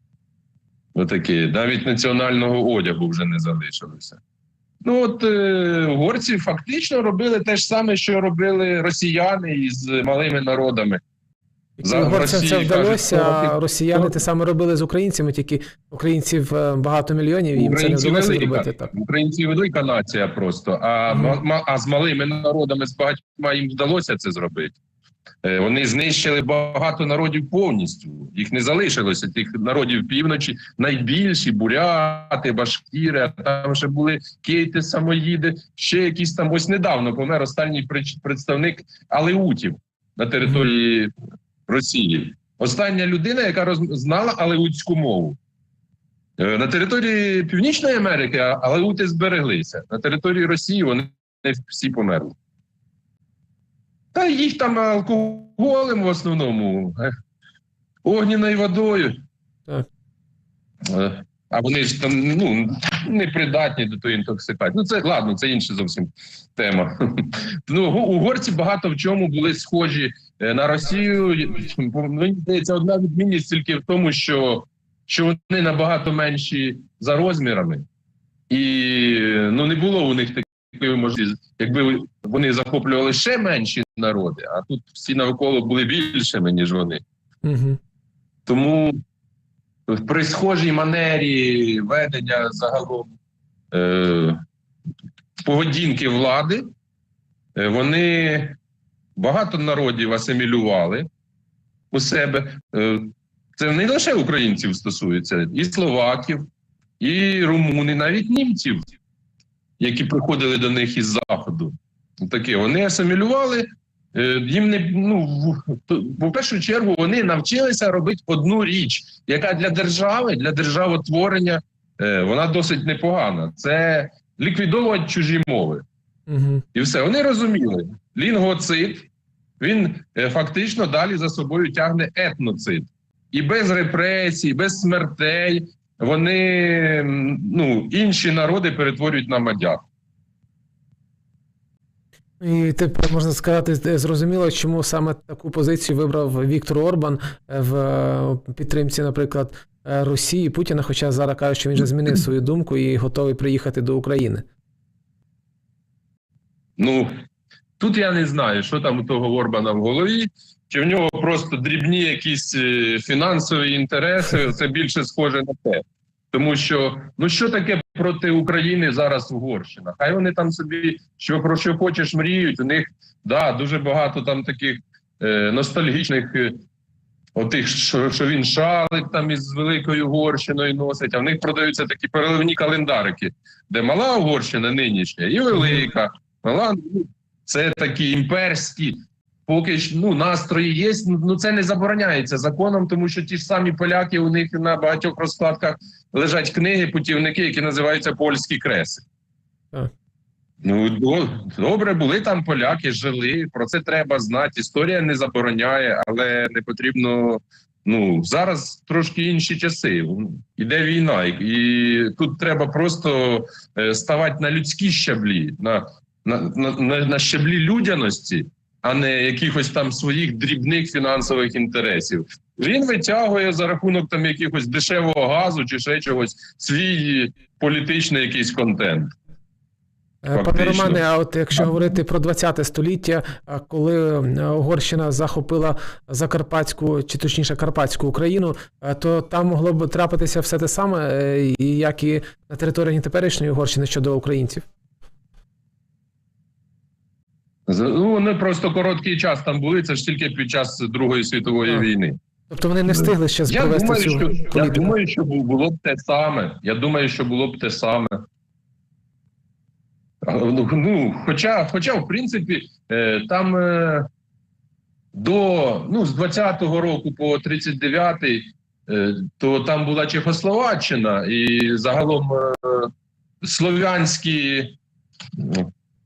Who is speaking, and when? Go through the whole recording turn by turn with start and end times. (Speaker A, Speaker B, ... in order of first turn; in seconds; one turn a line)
Speaker A: 0.9-4.2
Speaker A: 4.8-11.0
Speaker B: 11.8-18.9
Speaker A: 11.8-14.2
Speaker A: 17.6-24.7
Speaker B: 21.1-21.4
Speaker A: 25.4-41.1
Speaker A: 41.7-45.4
Speaker A: 46.4-52.3
Speaker A: 54.1-57.0
Speaker A: 58.0-59.1
Speaker A: 60.9-77.8
Speaker A: 78.5-87.0
Speaker B: 87.4-87.8
Speaker A: 88.5-89.0
Speaker A: 89.9-93.1
Speaker A: 93.7-94.4
Speaker A: 95.4-96.6
Speaker A: 97.5-98.6
Speaker A: 99.2-101.1
Speaker A: 101.9-106.5
Speaker A: 107.0-108.8
Speaker A: 109.8-125.8
Speaker B: 126.3-126.6
Speaker A: 126.7-129.1
Speaker A: 129.6-139.8
Speaker B: 142.4-154.4
Speaker A: 156.8-157.1
Speaker A: 157.8-176.6
Speaker A: 177.3-199.0
Speaker B: 185.5-185.9
Speaker A: 200.6-229.1
Speaker B: 230.2-244.7
Speaker A: 230.3-231.0
Speaker A: 231.5-231.9
Speaker A: 247.7-252.2
Speaker B: 252.5-254.9
Speaker A: 252.9-258.2
Speaker A: 260.2-264.1
Speaker A: 265.1-272.9
Speaker A: 273.4-274.8
Speaker A: 275.4-275.7